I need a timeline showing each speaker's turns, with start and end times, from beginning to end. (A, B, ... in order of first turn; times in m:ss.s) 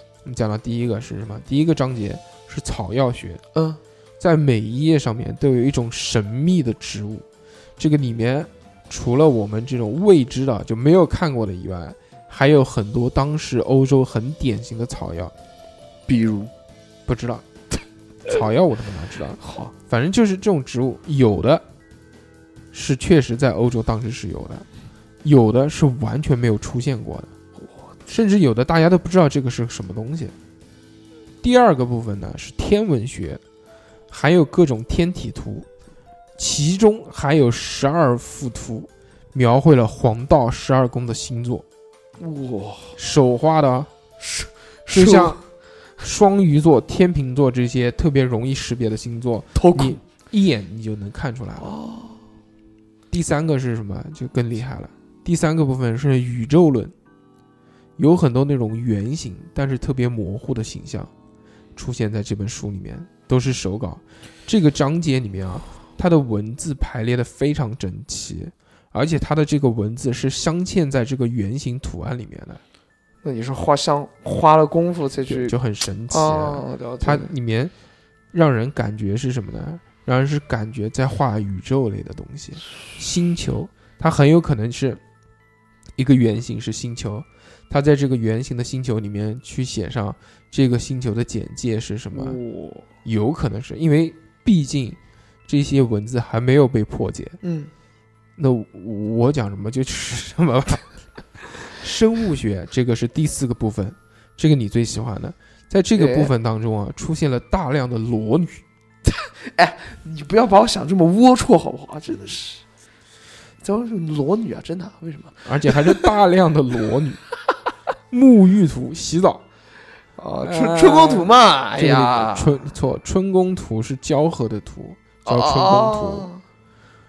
0:00.2-0:03.4 A
0:03.5-0:03.8 B
0:04.2-0:07.2 A
0:07.8-0:15.3 A
0:16.1-0:16.5 B
0:17.0-0:17.4 A
0:18.2-0:21.6 A
0:19.4-0:19.7 B
0:22.7-0:24.6 A
0:25.2-0:27.3 A
0:28.1-0:30.3 A
0:31.4-0:33.4 A
0:34.1-0:35.7 A
0:36.4-0:41.6 A
0:42.2-0:43.0 B
0:43.0-0:43.9 A
0:44.2-0:45.4 B
0:44.9-0:45.4 A
0:46.0-0:51.7 A
0:49.5-0:50.0 B
0:51.6-0:52.2 B
0:53.1-0:56.9 A
0:58.0-1:01.1 A
1:01.8-1:12.6 A
1:13.2-1:15.5 B
1:15.3-1:17.7 A
1:16.1-1:17.3 B
1:18.3-1:25.0 A
1:26.0-1:32.4 A
1:32.1-1:32.8 B
1:33.0-1:37.4 A
1:37.4-1:37.7 B
1:38.4-1:40.8 A
1:41.4-1:48.6 A
1:46.0-1:46.3 B
1:49.1-1:52.6 B
1:53.6-1:56.1 B
1:55.4-1:57.2 A
1:58.1-1:59.4 A
2:00.2-2:02.7 B
2:00.4-2:06.3 A
2:05.2-2:06.4 B